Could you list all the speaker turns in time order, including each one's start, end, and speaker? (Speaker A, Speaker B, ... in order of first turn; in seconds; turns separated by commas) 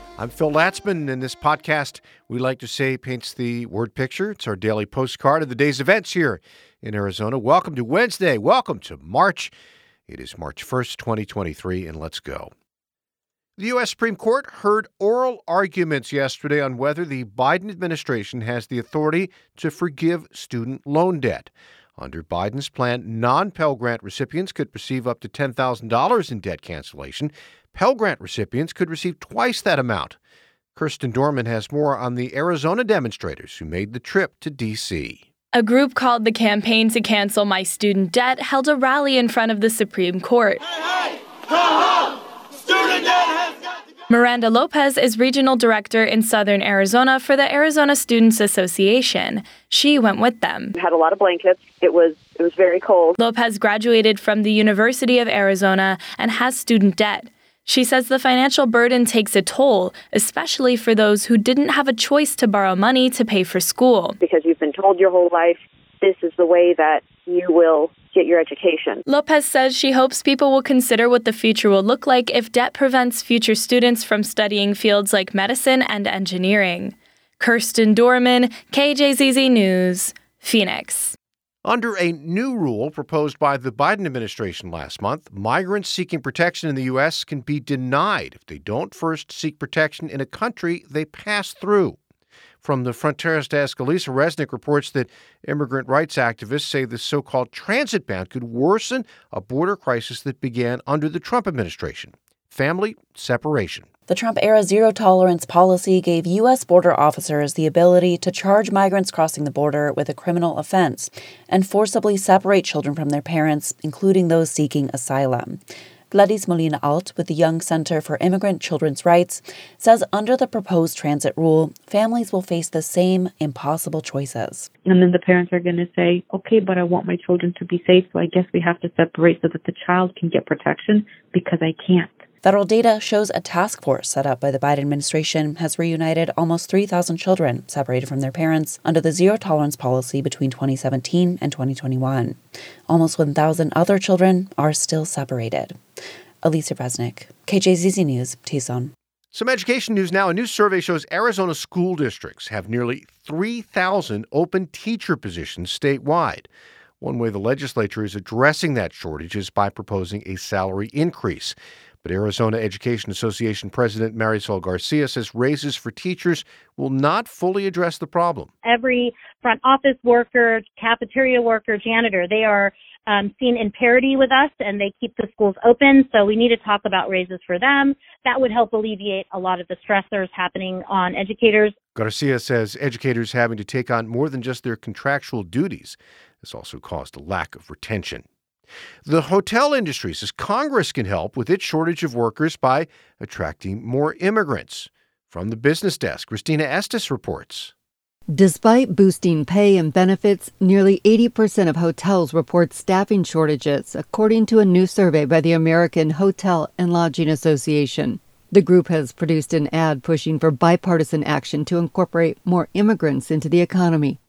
Speaker A: 0.2-9.5, Speaker A: 10.1-12.5, Speaker A: 13.6-30.2, Speaker A: 30.8-35.2, Speaker B: 35.5-40.6, Speaker B: 44.1-50.7, Speaker C: 50.8-53.1, Speaker B: 53.2-64.2, Speaker C: 64.2-69.0, Speaker B: 69.1-81.1, Speaker A: 81.7-92.0, Speaker A: 92.6-103.9, Speaker D: 104.1-124.7, Speaker E: 124.9-132.1, Speaker D: 132.4-142.4, Speaker D: 142.9-145.8, Speaker D: 146.4-148.9, Speaker A: 149.3-156.5, Speaker A: 157.0-168.5, Speaker F: 168.7-181.7, Speaker A: 181.9-188.2, Speaker A: 189.1-197.7, Speaker G: 198.3-214.2